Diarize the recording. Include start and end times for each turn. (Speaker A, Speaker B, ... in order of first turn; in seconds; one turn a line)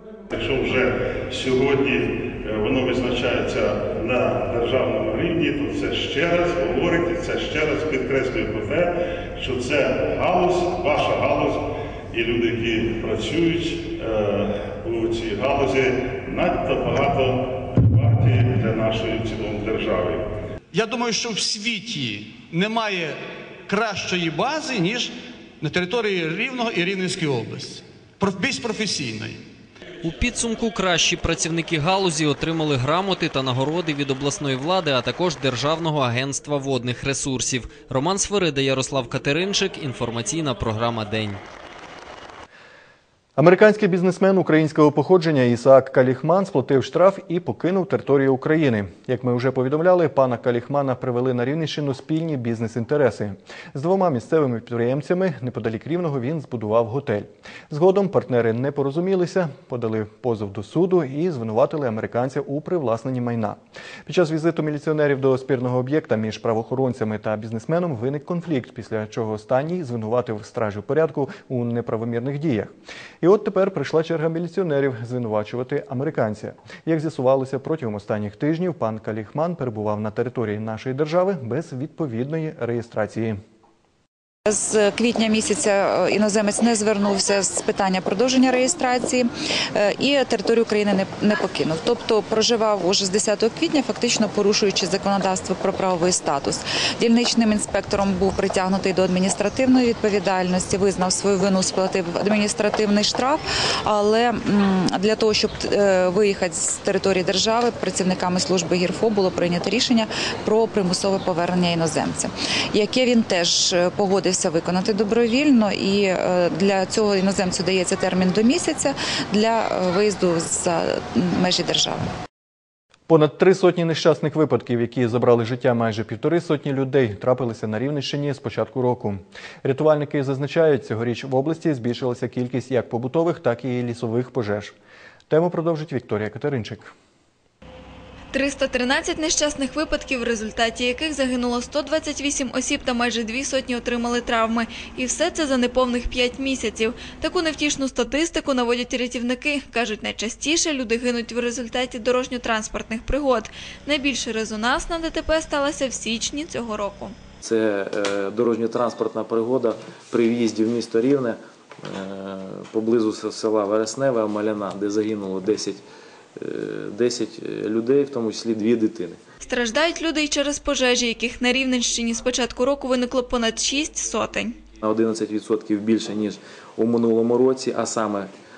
Speaker A: 0.3-20.2
Speaker B: 20.7-23.1
Speaker B: 23.7-29.4
Speaker C: 30.0-41.4
Speaker D: 43.4-83.4
Speaker E: 84.5-122.1
Speaker D: 123.1-134.8
Speaker D: 135.3-136.9
Speaker F: 138.3-157.1
Speaker G: 157.4-165.8
Speaker G: 166.3-169.2
Speaker F: 169.4-174.5
Speaker G: 174.8-178.3